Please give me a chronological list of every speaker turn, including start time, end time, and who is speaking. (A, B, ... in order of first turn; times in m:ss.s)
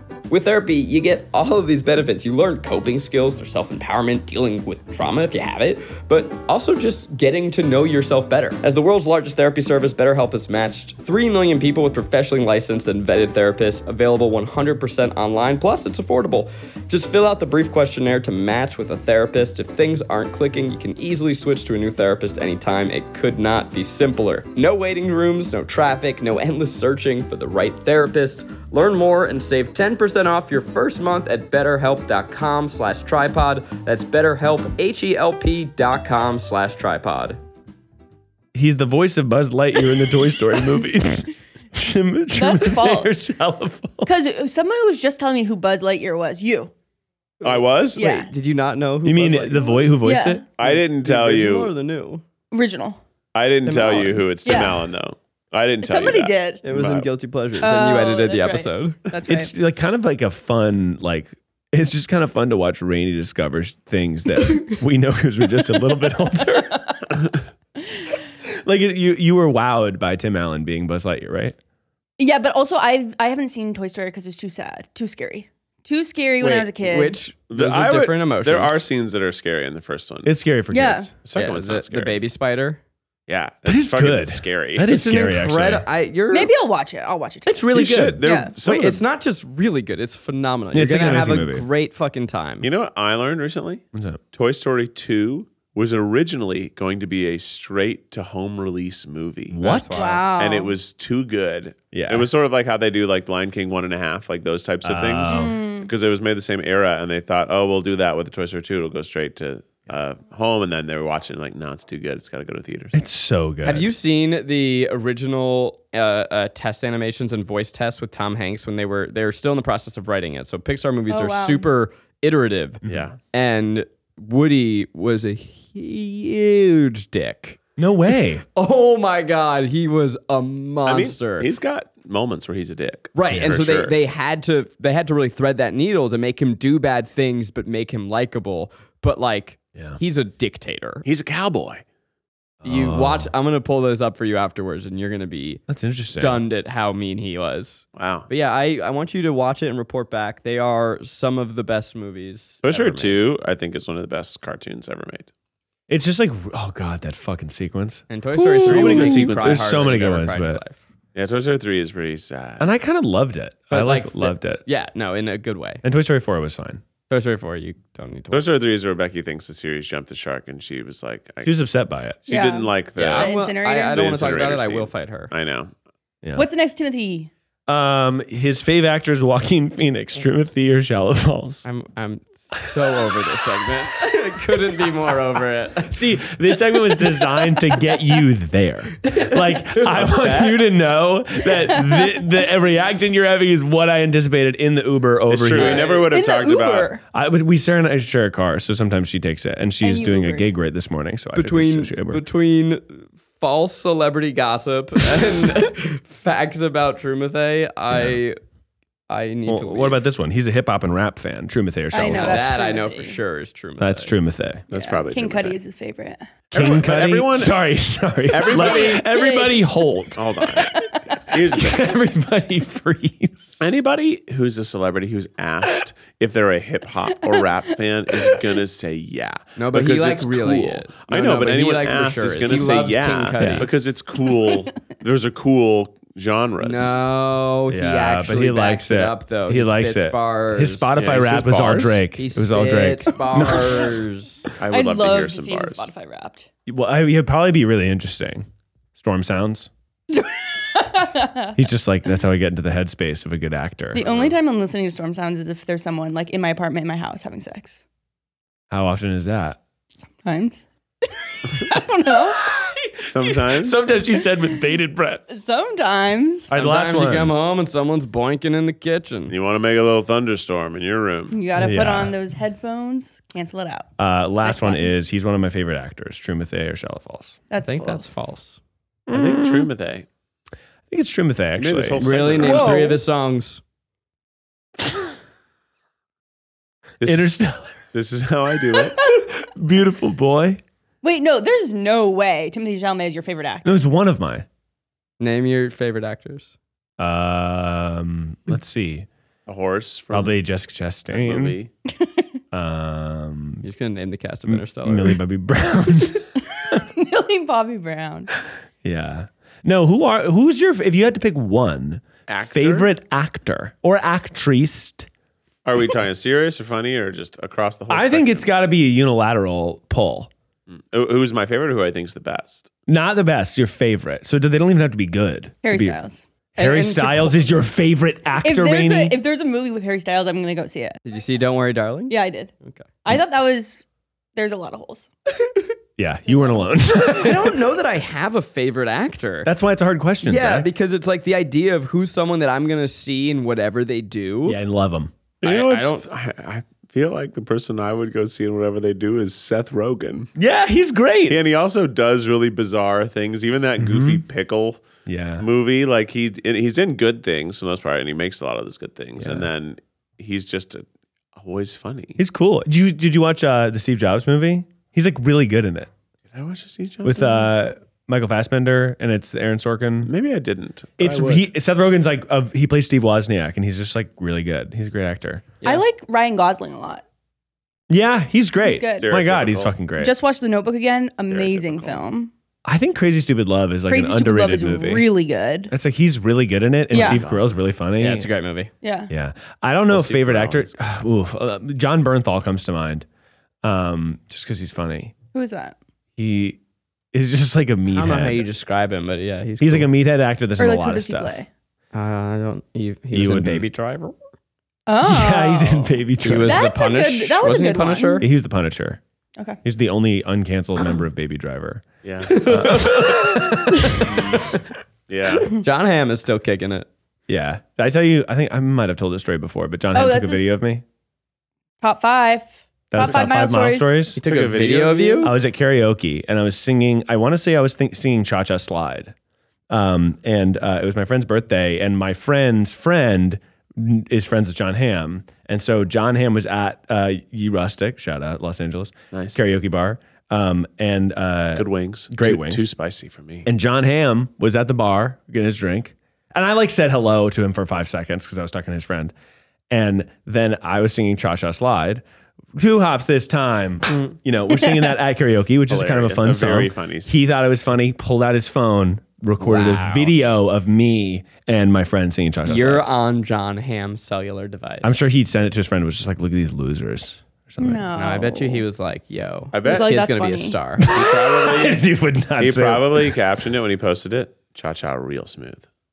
0:00.3-0:37.4 A
0:38.5-0:44.1 B
0:42.3-0:43.2 C
0:44.0-0:46.7 C
0:47.4-0:49.9 A
0:47.4-0:48.0 D
0:48.0-0:48.3 C
0:49.0-0:50.4 B
0:50.0-0:50.4 C
0:50.6-0:51.7 D
0:50.6-0:52.2 A
0:52.5-0:53.0 C
0:53.3-0:57.1 D
0:53.6-0:54.8 C
0:55.8-0:56.6 C
0:56.6-0:59.0 A
0:57.6-0:59.5 C
0:59.3-1:07.0 B
1:06.7-1:07.2 C
1:08.4-1:11.6 B
1:12.2-1:17.2 C
1:16.4-1:18.8 A
1:17.5-1:20.4 D
1:20.2-1:21.1 B
1:20.7-1:21.1 C
1:21.2-1:22.2 D
1:21.3-1:22.8 A
1:23.3-1:24.9 D
1:23.6-1:25.9 B
1:24.9-1:26.5 A
1:26.3-1:27.6 C
1:27.4-1:28.2 B
1:27.7-1:29.0 D
1:28.2-1:28.5 C
1:28.6-1:32.7 A
1:30.7-1:31.6 B
1:32.6-1:39.6 D
1:33.9-1:34.2 B
1:39.5-1:40.3 B
1:39.6-1:40.3 A
1:39.9-1:40.8 C
1:40.4-1:53.1 D
1:41.9-1:42.3 B
1:44.8-1:45.6 B
1:45.3-1:45.9 C
1:52.9-1:53.9 B
1:53.6-2:02.8 A
2:01.1-2:01.7 C
2:02.8-2:03.1 B
2:02.8-2:03.2 D
2:03.3-2:07.6 A
2:07.8-2:08.4 B
2:08.5-2:11.5 A
2:10.8-2:13.9 D
2:13.1-2:21.0 A
2:13.3-2:13.6 B
2:19.7-2:20.0 B
2:21.0-2:21.8 D
2:22.6-2:23.3 B
2:22.6-2:25.6 A
2:25.7-2:26.4 B
2:26.1-2:33.2 A
2:27.9-2:28.3 D
2:32.6-2:35.3 D
2:35.9-2:40.6 B
2:38.1-2:40.8 A
2:38.6-2:39.7 D
2:41.1-2:42.7 D
2:42.6-2:44.6 B
2:43.7-2:45.8 A
2:45.8-2:46.8 B
2:47.1-2:48.5 A
2:48.3-2:51.5 D
2:51.4-2:52.2 B
2:52.2-2:53.3 D
2:52.3-2:54.0 C
2:53.0-2:55.3 A
2:53.9-2:55.7 D
2:56.4-2:57.3 C
2:57.7-3:01.6 B
3:01.6-3:06.0 A
3:05.8-3:15.8 B
3:09.8-3:10.6 D
3:11.7-3:12.2 C
3:15.3-3:16.9 D
3:15.6-3:17.0 C
3:15.6-3:16.0 A
3:17.1-3:22.2 B
3:19.8-3:20.5 C
3:21.4-3:28.4 A
3:27.9-3:28.2 B
3:29.1-3:30.0 A
3:29.4-3:32.5 B
3:31.9-3:33.2 C
3:32.1-3:34.1 A
3:33.8-3:34.6 B
3:34.7-3:35.6 D
3:34.7-3:36.2 C
3:36.5-3:37.6 D
3:36.5-3:40.9 B
3:38.3-3:39.1 D
3:38.6-3:39.6 C
3:40.2-3:41.8 D
3:40.4-3:41.4 C
3:41.5-3:43.6 B
3:43.6-3:57.0 D
3:49.6-3:53.7 A
3:53.4-3:53.7 B
3:54.2-3:54.6 C
3:56.6-4:01.1 A
3:57.7-4:03.9 B
4:01.0-4:02.0 D
4:02.2-4:04.5 A
4:04.6-4:05.9 D
4:04.7-4:06.5 C
4:06.7-4:09.7 B
4:10.1-4:11.5 C
4:11.6-4:14.0 B
4:13.9-4:14.4 D
4:13.9-4:17.8 C
4:18.7-4:19.6 B
4:20.2-4:20.6 C
4:21.4-4:22.8 C
4:22.4-4:25.2 B
4:23.0-4:23.8 D
4:25.3-4:26.5 C
4:26.5-4:27.3 B
4:26.5-4:29.3 A
4:29.3-4:31.4 D
4:31.3-4:33.9 C
4:31.6-4:32.2 B
4:34.0-4:37.4 B
4:34.4-4:34.9 C
4:37.5-4:38.2 C
4:37.6-4:38.6 A
4:39.1-4:39.7 B
4:39.1-4:40.0 D
4:40.9-4:42.3 B
4:41.6-4:42.8 D
4:42.0-4:43.6 A
4:42.4-4:43.0 C
4:47.0-4:47.4 D
4:47.0-4:47.8 B
4:47.9-4:49.0 D
4:49.0-4:50.6 B
4:51.0-4:53.7 C
4:53.6-4:54.4 B
4:55.2-4:56.5 A
4:57.0-4:59.1 B
4:59.5-5:00.3 D
5:00.1-5:01.6 B
5:01.1-5:01.7 D
5:02.5-5:03.6 B
5:03.6-5:05.2 A
5:04.4-5:06.3 B
5:06.6-5:08.3 C
5:08.8-5:15.1 B
5:12.3-5:12.9 D
5:15.6-5:18.5 D
5:17.9-5:20.3 B
5:20.7-5:22.7 D
5:22.9-5:26.0 B
5:25.6-5:26.3 C
5:26.5-5:29.2 B
5:26.6-5:27.4 A
5:28.4-5:31.0 C
5:31.0-5:32.9 A
5:32.1-5:32.5 C
5:33.0-5:33.8 C
5:34.4-5:35.1 C
5:36.0-5:37.6 B
5:36.3-5:36.7 C
5:37.1-5:39.5 A
5:39.4-5:40.7 B
5:40.2-5:44.6 A
5:44.4-5:45.1 B
5:45.4-5:46.0 A
5:45.4-5:50.3 D
5:50.4-5:51.4 B
5:51.3-5:54.8 D
5:53.8-5:54.2 B
5:55.0-5:55.4 B
5:55.4-6:00.8 D
5:59.2-5:59.5 B
6:01.4-6:02.2 D
6:02.2-6:05.9 B
6:06.3-6:07.4 D
6:07.0-6:10.1 B
6:10.0-6:11.5 D
6:11.0-6:15.4 B
6:15.6-6:17.0 C
6:17.9-6:20.1 B
6:18.6-6:19.1 C
6:19.0-6:19.8 D
6:20.0-6:22.3 C
6:21.3-6:22.0 D
6:22.6-6:25.1 B
6:23.9-6:25.7 C
6:25.7-6:28.3 B
6:26.9-6:27.2 C
6:26.9-6:27.5 D
6:28.0-6:28.7 A
6:28.8-6:29.1 C
6:29.1-6:33.0 B
6:29.9-6:30.7 D
6:33.6-6:35.1 B
6:35.3-6:35.8 C
6:36.2-6:36.6 B
6:37.1-6:38.4 B
6:37.9-6:39.9 A
6:39.6-6:41.4 B
6:40.6-6:41.5 C
6:41.9-6:44.2 A
6:43.1-6:43.6 B
6:44.9-6:48.3 C
6:45.0-6:46.7 B
6:46.2-6:48.2 A
6:48.2-6:49.0 B
6:49.6-6:54.6 B
6:52.0-6:52.9 D
6:52.3-6:54.1 A
6:54.1-6:54.4 D
6:55.1-6:55.6 D
6:55.4-6:56.9 A
6:57.3-7:00.8 B
6:59.9-7:00.5 C
7:01.8-7:04.0 C
7:02.9-7:04.2 B
7:04.2-7:05.3 A
7:04.2-7:05.3 D
7:05.2-7:09.1 B
7:09.7-7:22.6 B
7:19.1-7:19.4 D
7:21.6-7:23.4 D
7:23.4-7:29.1 B
7:29.7-7:32.0 B
7:32.5-7:42.8 B
7:35.7-7:37.5 D
7:39.4-7:40.1 A
7:42.4-7:45.0 A
7:44.8-7:47.9 B
7:47.6-7:48.6 C
7:48.0-7:50.9 A
7:49.5-7:49.9 D
7:49.6-7:50.6 C
7:50.8-7:53.2 B
7:50.8-7:51.8 D
7:52.4-7:55.7 D